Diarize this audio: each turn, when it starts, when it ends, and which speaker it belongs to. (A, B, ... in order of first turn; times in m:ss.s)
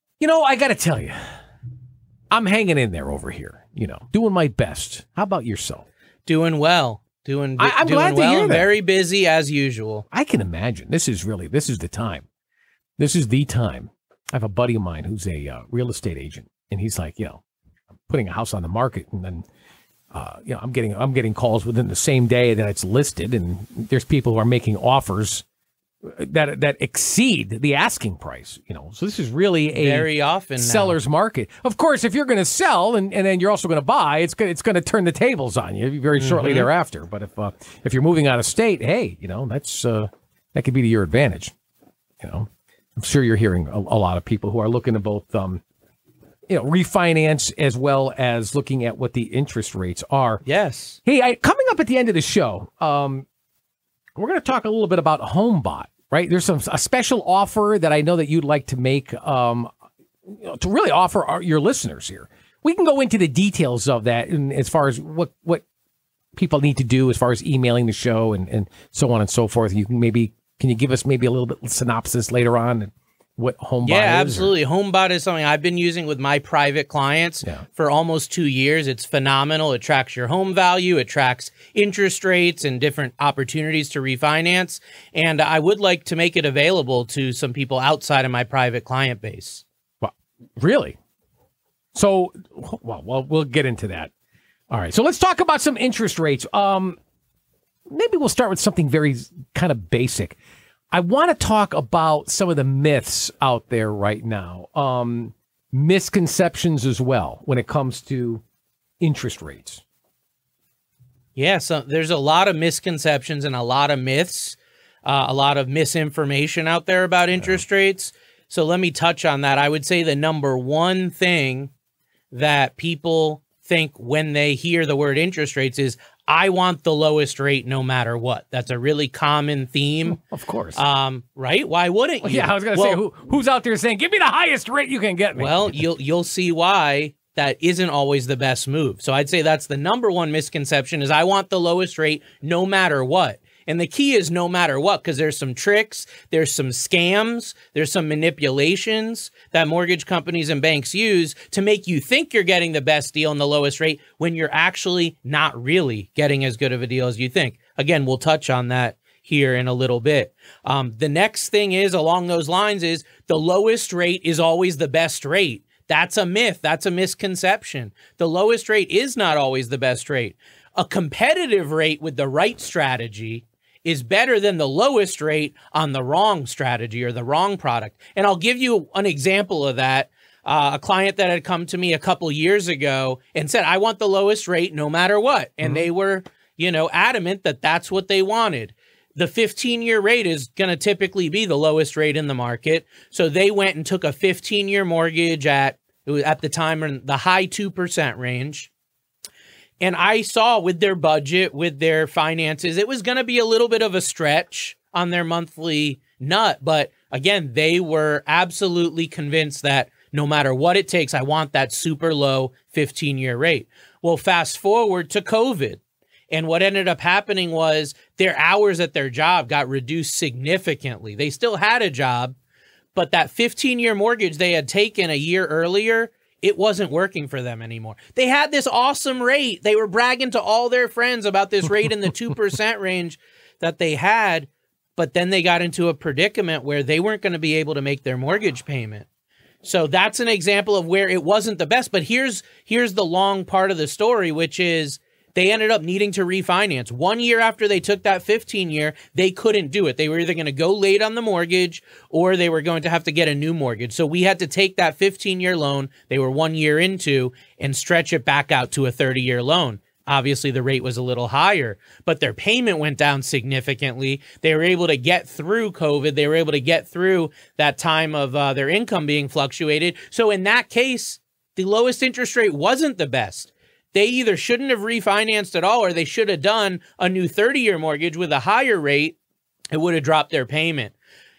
0:00.2-0:01.3 A
0:02.3-0:05.8 A
0:06.2-0:10.0 B
0:07.6-0:08.7 A
0:10.1-0:12.2 A
0:13.0-0:17.4 A
0:18.1-0:19.4 A
0:20.1-0:25.4 A
0:26.0-0:41.5 A
0:29.8-0:31.0 B
0:36.2-0:36.7 B
0:42.2-0:45.6 A
0:46.5-0:50.4 A
0:50.4-0:51.0 B
0:51.0-0:53.2 A
0:54.1-0:59.7 A
1:00.3-1:05.6 A
1:06.4-1:14.5 A
1:13.8-1:29.6 B
1:30.0-1:31.0 A
1:31.9-1:34.1 A
1:34.7-1:37.0 A
1:37.9-1:40.4 A
1:40.9-1:48.4 A
1:49.0-1:49.8 A
1:51.4-2:01.7 B
2:02.3-2:10.2 B
2:10.1-2:10.8 A
2:10.8-2:13.0 B
2:12.2-2:15.8 A
2:15.4-3:18.7 B
3:19.8-3:42.3 B
3:42.9-3:59.0 B
3:59.6-4:39.2 B
4:39.7-4:40.9 B